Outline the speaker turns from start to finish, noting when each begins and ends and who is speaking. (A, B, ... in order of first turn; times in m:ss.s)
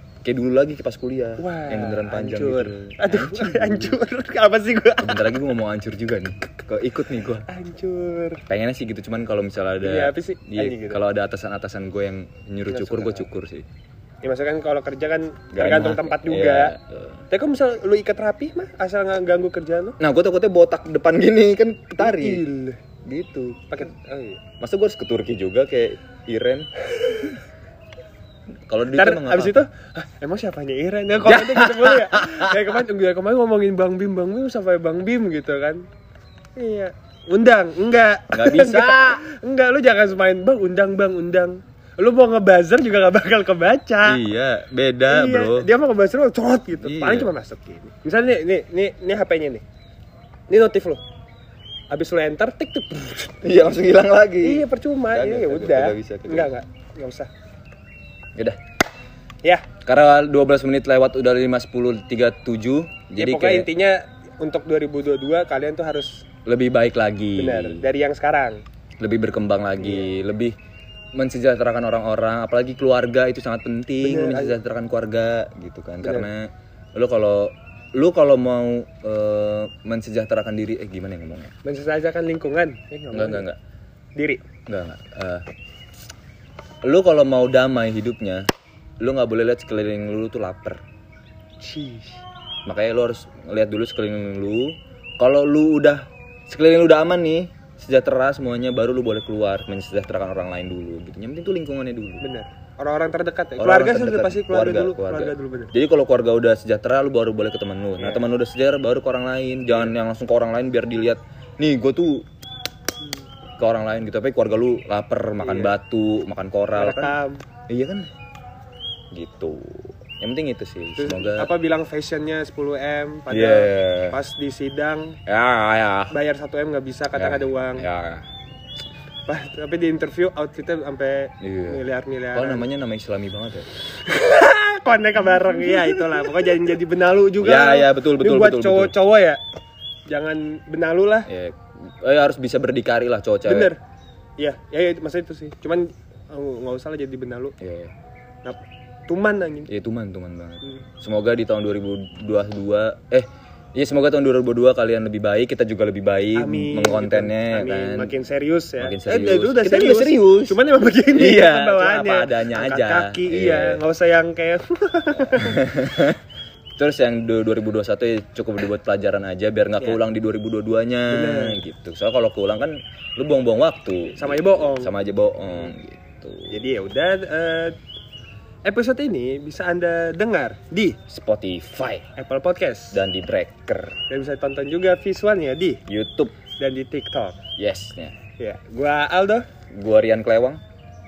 0:00.2-0:04.0 A
0:01.4-0:05.2 B
0:05.0-0:07.4 A
0:07.5-0:08.4 B
0:08.5-0:13.7 A
0:09.8-0:11.0 B
0:12.7-0:13.3 B
0:14.2-0:16.8 B
0:15.5-0:17.2 A
0:17.3-0:20.0 B
0:20.0-0:22.4 A
0:22.0-0:22.8 B
0:23.0-0:23.8 A
0:23.7-0:24.4 B
0:24.6-0:27.2 A
0:27.0-0:27.3 B
0:28.7-0:29.6 A
0:28.9-0:35.9 B
0:31.2-0:32.7 A
0:36.6-0:44.2 B
0:38.3-0:39.2 A
0:44.0-0:45.7 A
0:45.1-0:49.6 B
0:46.8-0:47.3 A
0:50.5-0:51.0 B
0:51.9-0:53.4 B
0:53.4-0:56.5 A
0:54.4-0:57.3 B
0:59.8-1:03.7 A
1:03.2-1:06.2 B
1:06.4-1:07.9 A
1:07.4-1:08.6 B
1:09.0-1:10.5 A
1:09.8-1:10.1 B
1:11.1-1:21.5 A
1:14.0-1:14.6 B
1:16.0-1:16.3 B
1:21.6-1:23.5 B
1:23.1-1:23.6 A
1:24.2-1:24.4 B
1:24.7-1:25.4 A
1:26.8-1:28.5 A
1:29.0-1:30.8 A
1:31.6-1:32.2 B
1:32.6-1:42.2 A
1:42.2-1:45.7 B
1:43.6-1:52.2 A
1:48.0-1:48.2 B
1:53.6-1:57.2 A
1:55.4-1:55.7 B
1:56.7-1:57.4 B
1:57.7-1:58.1 A
1:59.1-2:01.5 A
2:01.0-2:05.2 B
2:03.3-2:04.2 A
2:05.2-2:06.1 A
2:06.1-2:07.9 B
2:07.1-2:08.2 A
2:09.3-2:12.6 B
2:11.4-2:11.8 A
2:12.3-2:13.7 A
2:14.0-2:19.4 B
2:15.2-2:16.3 A
2:17.4-2:18.9 A
2:20.1-2:21.3 B
2:21.3-2:23.7 A
2:23.4-2:23.8 B
2:24.4-2:27.6 B
2:27.6-2:27.9 A
2:28.4-2:29.7 B
2:29.7-2:38.1 A
2:36.3-2:45.7 B
2:38.8-2:40.6 A
2:41.1-2:43.8 A
2:45.2-2:46.2 A
2:46.8-2:56.7 A
2:51.1-2:51.6 B
2:54.2-2:54.9 B
2:56.5-2:57.8 B
2:58.6-3:01.0 B
3:01.1-3:02.0 A
3:02.2-3:03.0 B
3:02.9-3:04.0 A
3:04.1-3:05.8 B
3:05.9-3:06.3 A
3:06.6-3:07.4 B
3:07.6-3:08.1 A
3:08.4-3:09.4 B
3:09.7-3:10.6 A